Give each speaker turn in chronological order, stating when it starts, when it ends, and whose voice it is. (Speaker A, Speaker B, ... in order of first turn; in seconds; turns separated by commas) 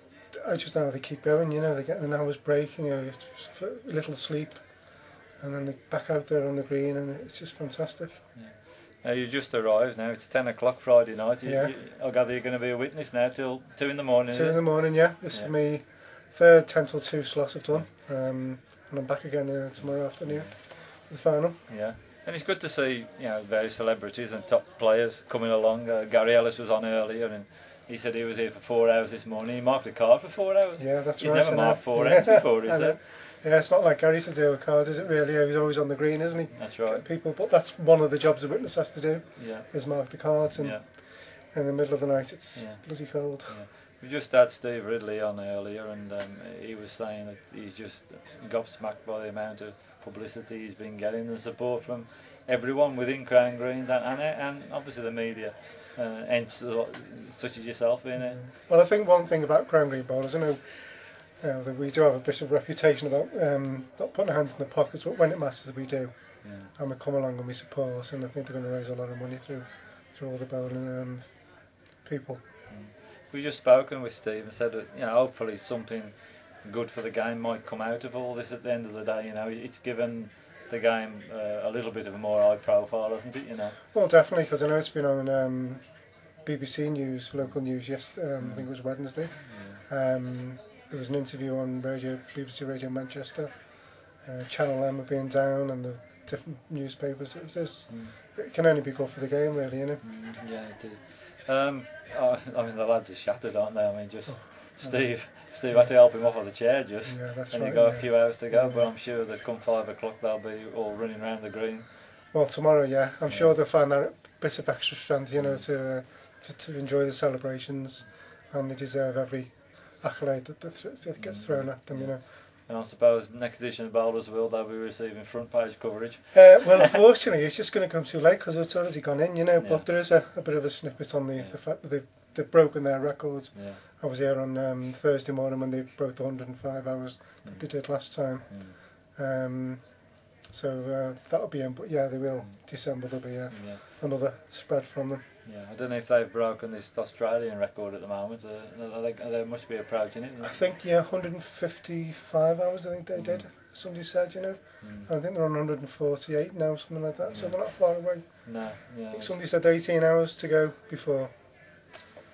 Speaker A: 0.3-8.3, Speaker B: 8.3-15.5, Speaker A: 11.4-11.7, Speaker A: 14.3-21.7, Speaker B: 19.8-20.6, Speaker B: 21.7-33.0, Speaker A: 30.8-43.6, Speaker B: 36.5-37.0, Speaker B: 39.4-40.8, Speaker B: 42.5-58.4, Speaker A: 58.1-72.4, Speaker B: 66.4-66.7, Speaker B: 72.7-83.8, Speaker A: 83.9-100.0, Speaker B: 87.4-87.7, Speaker B: 88.4-89.8, Speaker B: 97.9-98.1, Speaker B: 100.0-112.0, Speaker A: 104.3-105.9, Speaker A: 107.0-108.9, Speaker A: 112.3-122.2, Speaker B: 113.3-113.5, Speaker B: 115.4-115.7, Speaker B: 121.2-126.9, Speaker A: 126.3-145.2, Speaker B: 129.6-129.9, Speaker B: 133.5-133.8, Speaker B: 137.4-138.8, Speaker B: 142.4-143.0, Speaker B: 143.5-143.8, Speaker B: 145.4-150.7, Speaker A: 150.4-161.9, Speaker B: 153.1-153.5, Speaker B: 154.8-155.1, Speaker B: 157.3-159.3